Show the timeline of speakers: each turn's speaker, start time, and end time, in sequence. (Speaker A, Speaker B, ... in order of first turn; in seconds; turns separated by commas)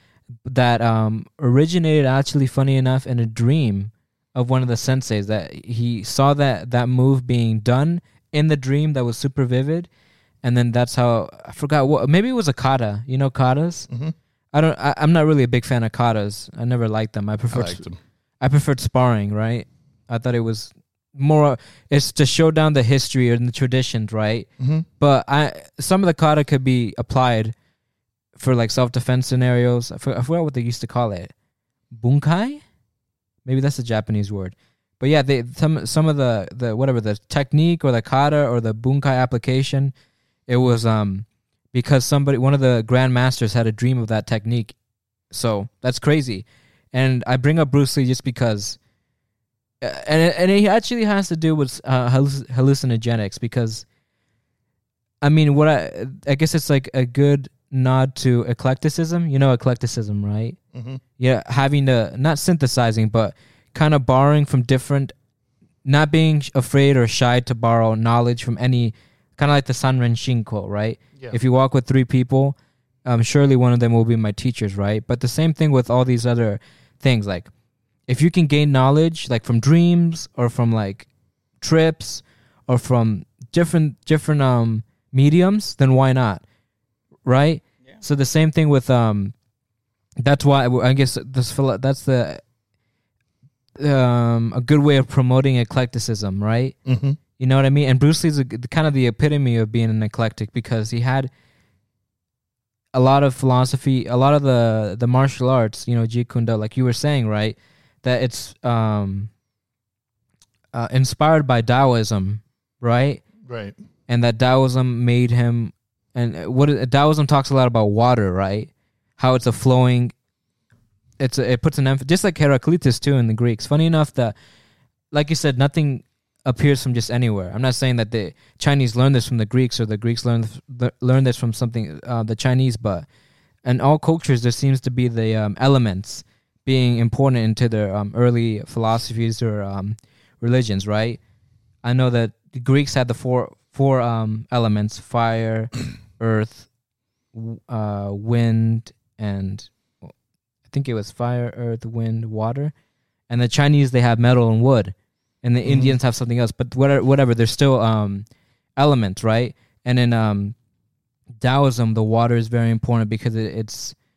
Speaker A: 0.4-9.9, Speaker A: 10.4-13.9, Speaker B: 13.9-14.1, Speaker A: 14.5-17.9, Speaker B: 17.5-18.0, Speaker A: 18.4-24.5, Speaker B: 24.6-24.9, Speaker A: 25.0-27.5, Speaker A: 28.4-31.3, Speaker A: 31.9-32.6, Speaker A: 33.4-39.9, Speaker A: 40.5-44.7, Speaker A: 45.3-48.8, Speaker A: 49.8-53.8, Speaker A: 55.2-60.6, Speaker B: 60.7-61.0, Speaker A: 61.2-65.1, Speaker A: 65.8-77.5, Speaker A: 78.1-81.1, Speaker A: 81.6-86.4, Speaker A: 87.2-89.3, Speaker A: 90.2-92.4, Speaker A: 93.8-96.8, Speaker B: 96.8-97.2, Speaker A: 97.4-101.3, Speaker A: 102.9-109.3, Speaker A: 110.7-113.2, Speaker B: 113.4-113.8, Speaker A: 114.1-120.1, Speaker A: 121.2-124.3, Speaker A: 125.1-133.1, Speaker A: 133.6-141.2, Speaker A: 141.8-146.7, Speaker A: 147.3-150.1, Speaker A: 150.7-152.7, Speaker A: 153.3-158.2, Speaker B: 155.6-156.0, Speaker A: 158.8-160.5, Speaker A: 161.4-163.9